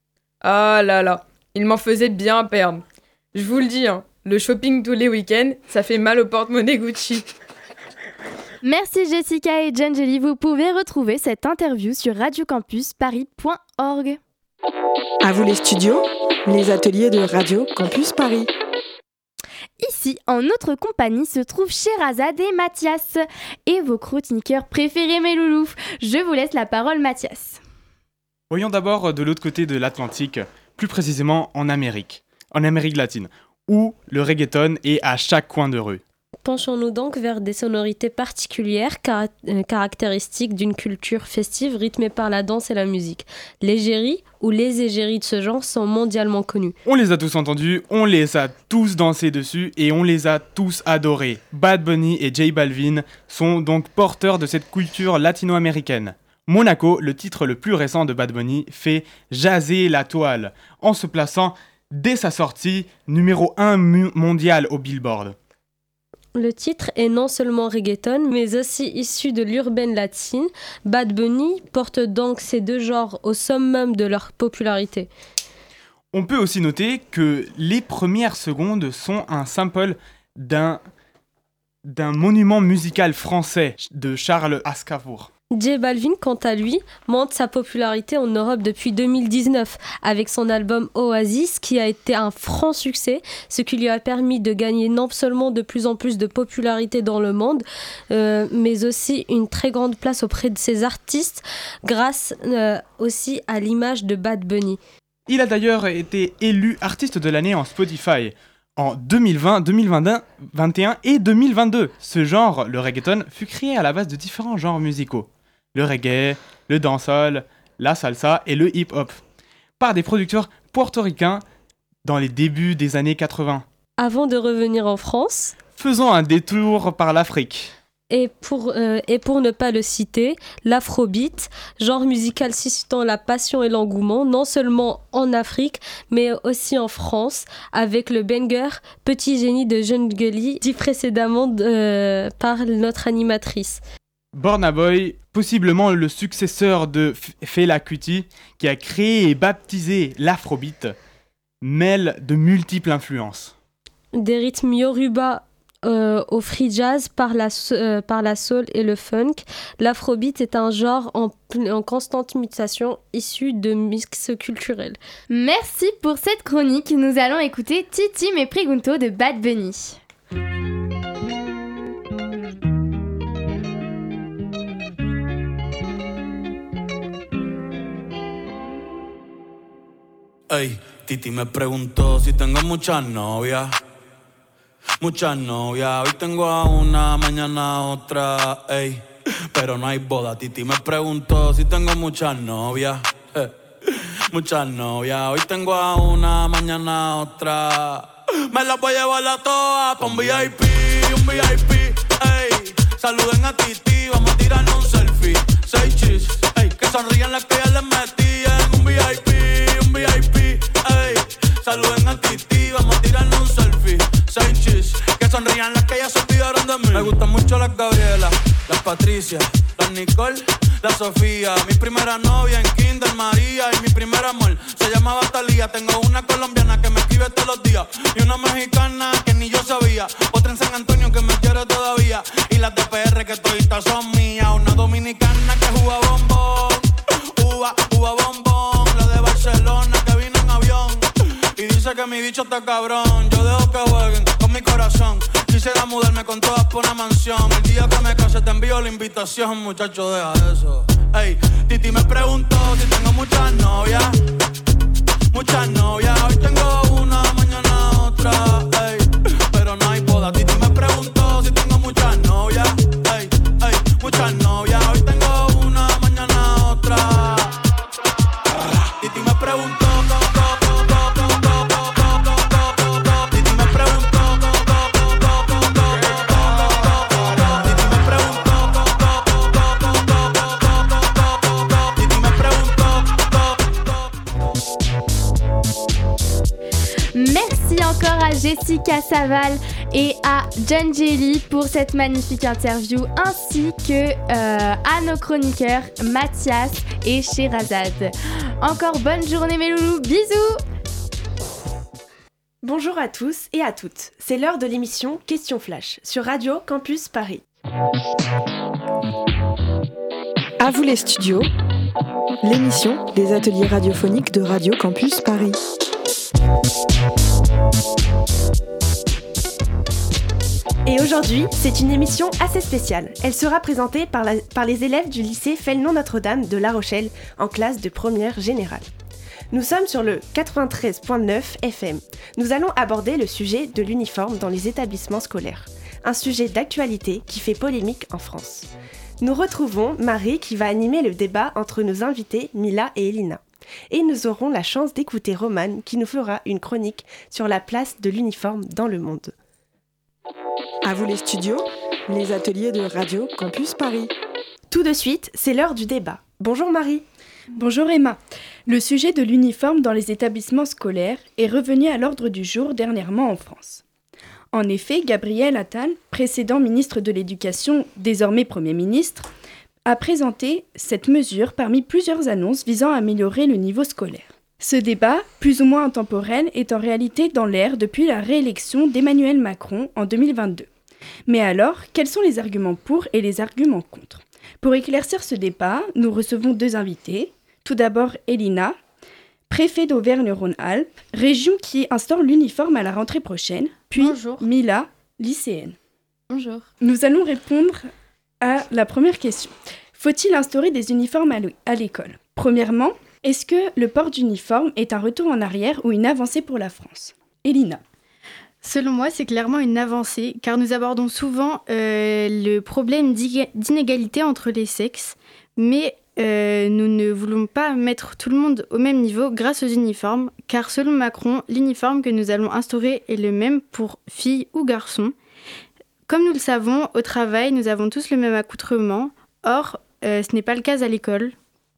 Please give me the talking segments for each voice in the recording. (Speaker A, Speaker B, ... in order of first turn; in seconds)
Speaker A: 0.4-7.3
Speaker B: 8.6-14.2, 19.8-27.6, 165.3-170.0, 287.1-300.6
Speaker C: 15.2-18.5, 310.6-311.5, 312.4-315.6, 350.8-354.1
Speaker D: 28.5-36.0, 46.9-65.3, 76.1-80.8, 81.9-85.3, 105.3-119.2, 119.8-121.4, 122.0-123.7, 125.7-127.7, 144.3-150.9, 151.6-153.6
Speaker E: 36.4-46.8, 66.4-75.1, 85.5-104.8, 124.0-125.6, 128.1-143.8, 154.2-165.0
Speaker F: 180.5-183.7, 185.0-241.1, 241.6-254.2, 255.3-267.6, 268.9-283.9
Speaker G: 302.6-307.4, 320.9-328.9, 329.5-338.7, 339.2-349.3, 354.7-357.0
Speaker H: 357.6-363.8, 364.5-369.3, 369.9-380.7, 381.3-388.8, 389.5-395.8, 396.8-397.9, 398.4-407.8
Speaker I: 394.0-394.4, 396.3-396.7, 408.6-425.1, 426.1-431.3